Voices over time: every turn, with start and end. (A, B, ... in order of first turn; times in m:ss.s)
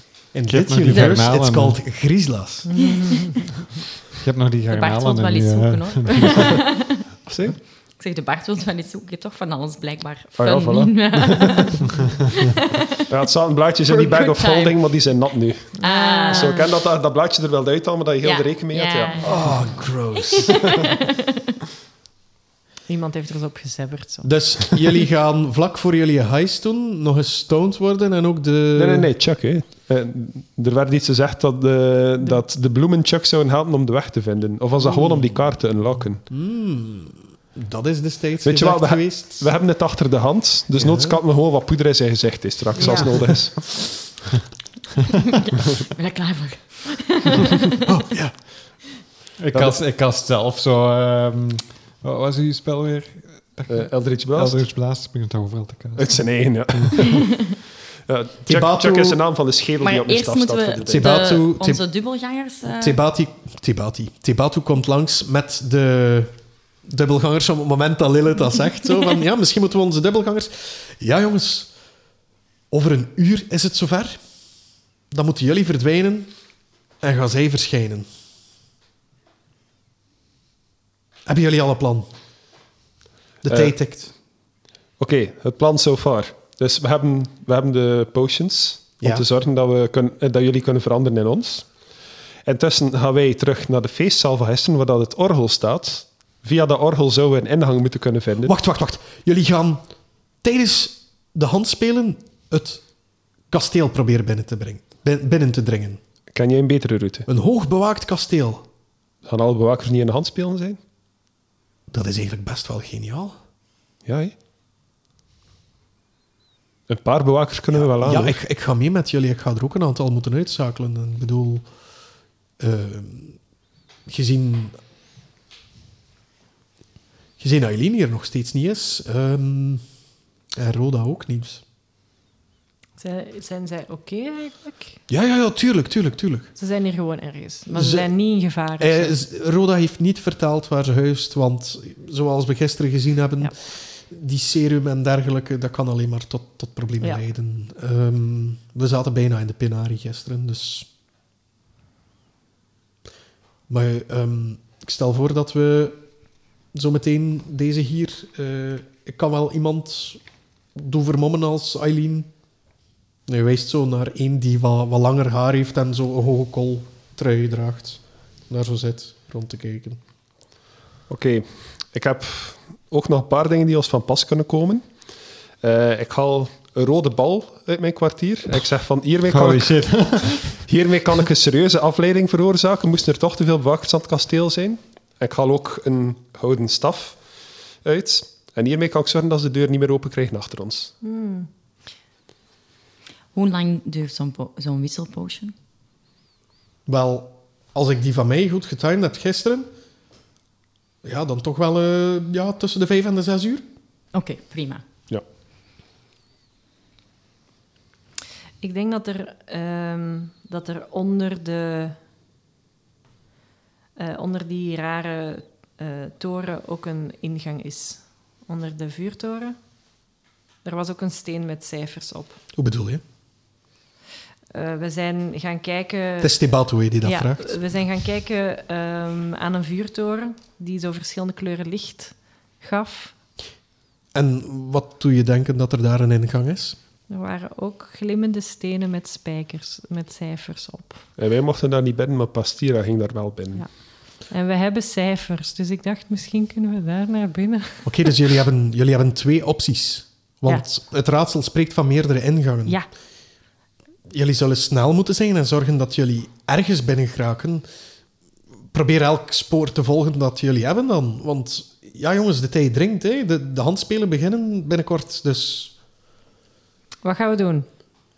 0:00.3-0:02.7 A
0:00.5-0:01.8 B
0:02.6-0:03.6 C
0:04.2-0:06.6 B
0:04.7-0:07.0 D
0:07.3-0:07.6 E
0:08.0-0:13.0 D
0:10.4-0:11.6 E
0:13.1-0:19.1 E
0:13.8-0:14.8 D
0:15.8-0:16.7 C
0:15.8-0:16.6 D
0:18.2-0:19.4 D
0:19.2-0:20.6 A
0:20.4-0:21.2 D
0:22.9-0:24.3 C
0:24.2-0:29.1 A
0:28.7-0:36.2 E
0:34.8-0:35.6 A
0:36.3-0:39.5 A
0:38.4-0:44.0 E
0:40.8-0:41.2 A
0:42.7-0:43.3 C
0:42.8-0:43.1 A
0:45.4-0:47.6 D
0:47.8-0:48.3 A
0:49.4-0:57.1 B
0:49.5-0:49.8 E
0:53.7-0:54.6 E
0:56.0-0:57.5 E
0:57.1-0:57.4 D
0:58.1-1:01.0 E
0:58.4-0:59.2 A
0:59.8-1:03.0 D
1:00.8-1:01.8 A
1:02.7-1:11.7 A
1:12.7-1:14.2 A
1:15.1-1:16.3 A
1:17.0-1:18.1 A
1:21.2-1:22.1 A
1:23.4-1:24.1 A
1:25.0-1:31.7 E
1:29.0-1:29.2 A
1:32.4-1:38.5 E
1:38.4-1:39.8 A
1:40.4-1:42.8 A
1:43.5-1:46.0 A
1:46.3-1:47.2 E
1:47.3-1:48.6 A
1:49.2-1:50.8 E
1:51.9-1:53.4 A
1:54.0-1:54.3 E
1:56.9-1:58.4 E
1:57.7-2:01.6 A
2:02.6-2:03.4 A
2:04.0-2:04.8 A
2:07.4-2:09.8 A
2:10.6-2:11.6 A
2:13.0-2:15.0 C
2:15.1-2:16.5 A
2:16.6-2:19.2 C
2:17.7-2:18.1 A
2:18.8-2:30.9 A
2:33.7-2:36.0 A
2:36.7-2:40.2 A
2:40.7-2:42.3 A
2:43.3-2:50.0 A
2:51.1-2:54.8 E
2:55.6-2:59.9 E
2:59.3-3:00.5 B
3:00.5-3:07.2 E
3:07.8-3:10.9 E
3:11.0-3:11.5 C
3:13.3-3:15.5 D
3:16.9-3:19.7 A
3:21.0-3:23.6 A
3:24.1-3:24.8 D
3:28.6-3:32.0 C
3:34.0-3:39.6 C
3:40.6-3:42.4 C
3:42.6-3:43.0 A
3:44.5-3:46.4 C
3:46.2-3:47.6 A
3:47.0-3:53.1 C
3:54.1-3:56.8 A
3:57.1-4:01.1 C
4:01.2-4:03.6 E
4:03.6-4:08.1 C
4:07.8-4:12.8 A
4:14.1-4:17.6 A
4:18.7-4:25.7 A
4:27.0-4:27.7 C